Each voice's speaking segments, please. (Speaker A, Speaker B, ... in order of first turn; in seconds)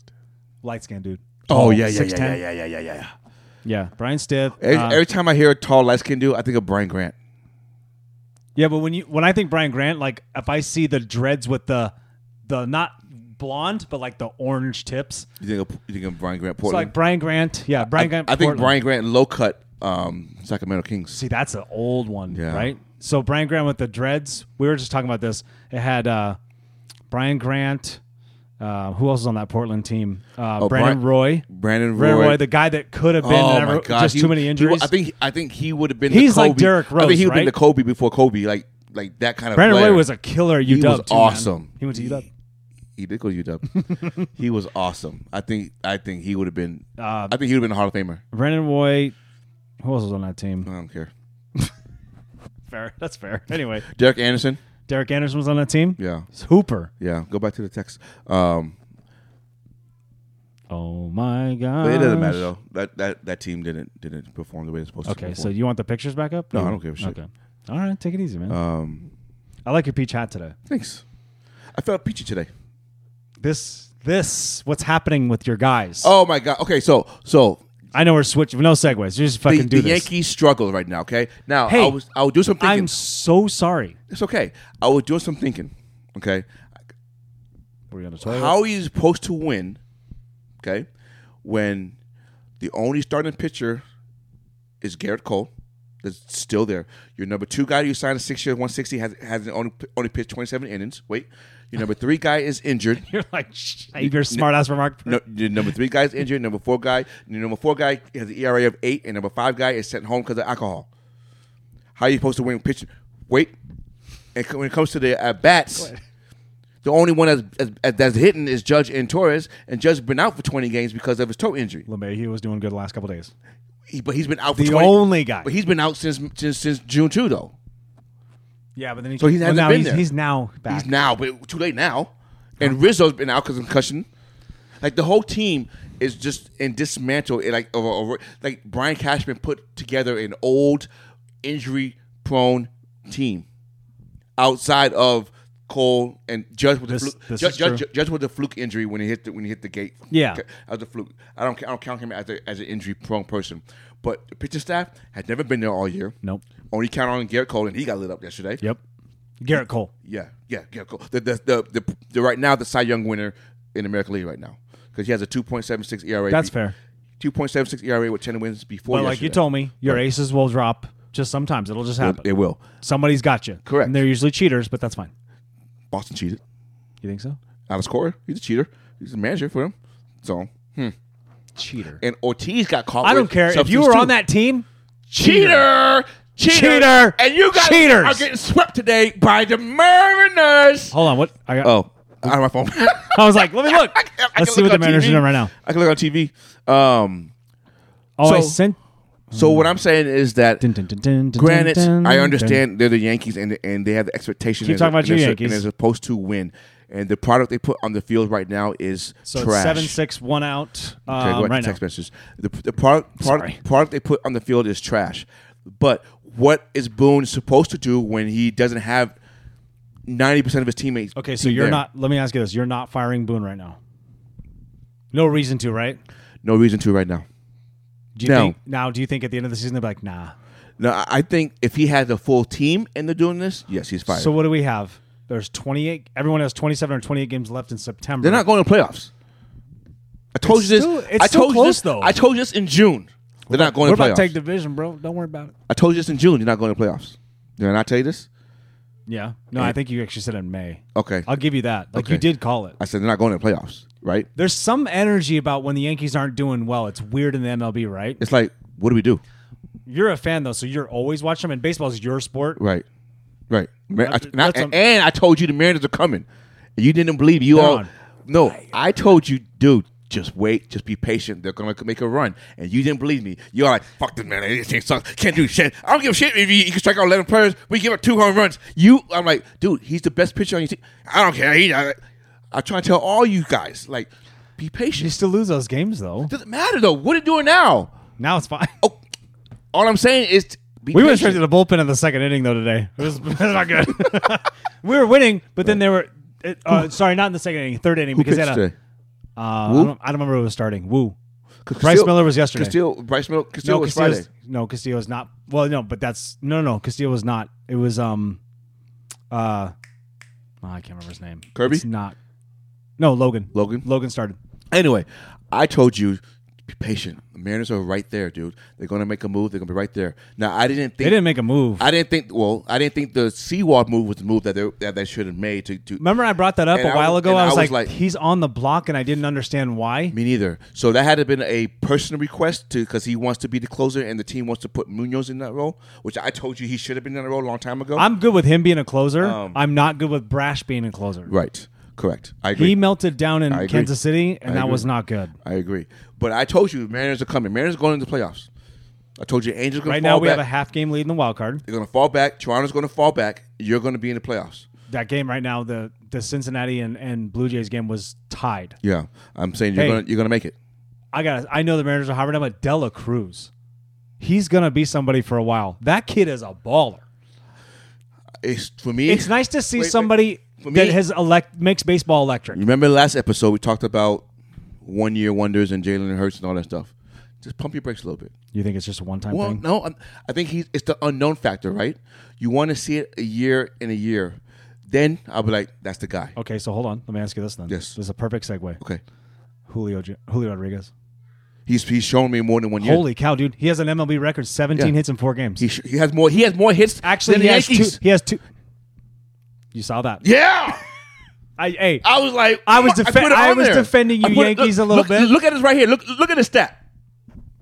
Speaker A: 0.6-2.4, 3.6-5.0, 8.6-11.9, 12.5-15.3, 16.6-18.7, 21.1-26.4, 27.1-28.0, 28.6-34.9, 36.1-37.5, 39.5-42.3, 43.8-44.2, 47.0-47.4, 48.3-49.1, 49.8-50.7, 52.7-53.9, 54.9-56.9, 60.7-62.5, 65.0-68.6, 69.7-70.5, 73.4-76.1, 77.9-80.1, 81.7-82.0, 82.6-84.0, 87.9-88.5, 103.0-105.2, 121.9-123.3, 124.5-125.5, 128.8-130.9, 146.9-147.8, 150.1-150.4, 159.4-159.9, 166.3-166.7, 168.9-172.2, 172.8-175.1, 177.0-177.4, 181.6-182.0, 183.0-185.7, 186.5-188.2, 190.9-191.7, 193.1-195.5, 198.2-198.8, 199.3-199.7, 200.6-202.6, 204.6-205.6, 209.2-211.8, 213.2-213.6, 221.2-223.8, 225.1-226.0, 228.2-230.3, 234.1-238.4, 240.4-242.1, 243.5-245.5, 249.1-252.8, 254.3-258.2, 259.9-262.6, 264.0-264.7, 267.5-267.9, 284.9-286.3, 288.2-288.7, 290.9-298.6, 299.4-301.1, 301.8-302.8, 303.6-308.4, 309.3-309.7, 310.6-312.1, 313.0-314.4, 321.0-321.9, 326.0-330.1, 338.0-341.3, 342.6-345.3, 349.8-351.6, 354.9-358.8, 359.7-360.0, 361.1-363.5, 364.2-367.0, 369.1-372.6, 378.5-379.6, 386.4-388.8, 389.7-390.9, 392.8-395.6, 397.0-398.4, 399.7-400.2, 401.6-402.1, 402.6-405.3
Speaker B: 1.5-3.1, 4.6-7.1, 15.4-16.9, 17.8-21.2, 22.3-22.7, 30.6-32.4, 33.2-40.1, 40.6-42.2, 43.0-43.6, 44.2-48.2, 50.6-51.1, 53.9-54.6, 56.0-56.2, 57.0-58.8, 61.8-65.5, 66.5-67.2, 68.5-69.1, 70.7-71.0, 71.7-72.5, 76.0-77.6, 79.5-82.9, 84.1-86.4, 88.2-89.8, 90.6-90.9, 91.4-91.9, 92.6-93.8, 94.8-95.5, 96.0-103.0, 104.0-104.4, 105.0-110.9, 112.0-113.5, 114.3-115.9, 116.8-121.8, 123.9-127.5, 129.2-130.1, 130.7-134.1, 134.8-140.9, 141.4-143.4, 144.4-156.1, 156.7-158.6, 160.0-166.5, 167.2-170.0, 172.0-172.6, 173.7-174.0, 175.9-176.4, 177.7-180.9, 182.0-184.1, 185.2-190.9, 191.6-197.3, 198.2-198.6, 199.3-200.6, 201.3-210.0, 211.1-219.2, 220.1-221.8, 226.4-227.2, 228.2-228.5, 230.8-234.3, 238.2-239.1, 240.3-244.3, 245.7-248.3, 250.9-251.3, 251.9-252.2, 252.8-254.3, 258.2-259.2, 262.6-262.8, 263.5-266.2, 266.8-282.0, 282.5-285.1, 286.3-287.9, 289.7-291.4, 298.1-298.7, 299.6-299.9, 301.6-304.3, 311.5-311.8, 313.5-313.9, 314.7-321.2, 321.8-326.0, 326.7-327.9, 330.1-338.1, 339.2-339.6, 341.3-342.8, 343.5-343.9, 344.4-344.8, 345.4-348.5, 349.2-350.4, 351.6-354.6, 358.8-360.5, 368.4-371.0, 372.5-374.2, 374.8-378.3, 379.3-386.3, 387.7-387.9, 391.7-393.0, 395.6-398.0, 400.2-400.8, 402.0-406.8